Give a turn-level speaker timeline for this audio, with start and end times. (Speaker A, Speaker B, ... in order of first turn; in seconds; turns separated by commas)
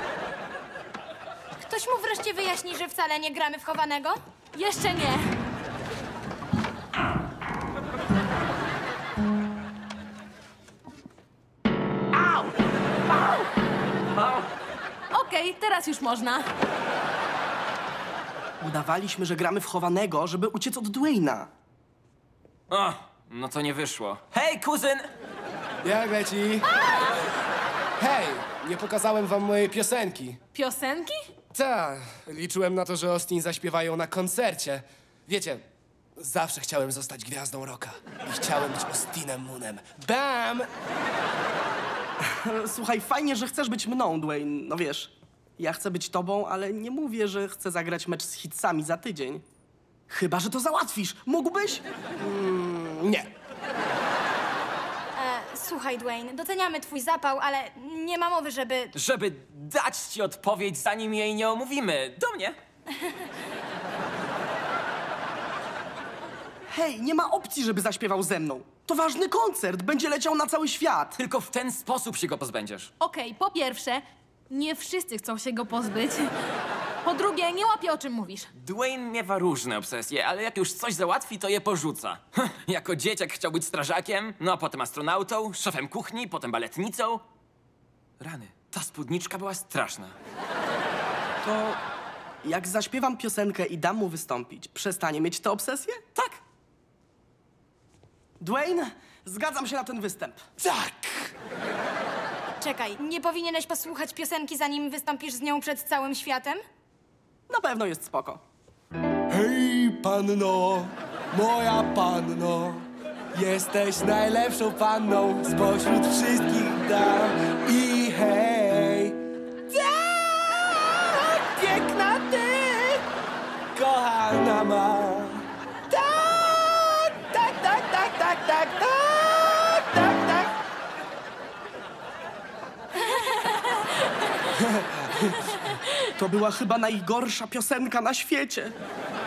Speaker A: 1.5-4.2, Speaker B: 4.5-5.4, Speaker C: 14.1-14.5, Speaker B: 15.1-16.5, Speaker D: 18.6-21.5, Speaker C: 22.7-25.1, Speaker E: 25.8-26.7, Speaker E: 28.0-30.4, Speaker B: 30.5-31.2, Speaker E: 31.5-35.6, Speaker E: 36.2-40.7, Speaker D: 42.2-49.4, Speaker D: 50.1-51.8, Speaker E: 52.2-53.3, Speaker A: 55.1-58.9, Speaker C: 58.9-62.6, Speaker D: 66.7-71.2, Speaker C: 71.2-72.9, Speaker B: 73.0-76.3, Speaker B: 77.0-78.5, Speaker C: 78.6-87.2, Speaker C: 88.2-90.1, Speaker D: 91.4-91.8, Speaker D: 92.4-96.4, Speaker D: 98.4-100.4, Speaker E: 100.6-101.3, Speaker A: 102.6-106.6, Speaker D: 107.5-108.4, Speaker E: 109.3-119.2, Speaker E: 119.7-123.0, Speaker E: 123.7-130.5, Speaker A: 133.1-133.6, Speaker E: 134.6-135.5, Speaker D: 136.1-138.7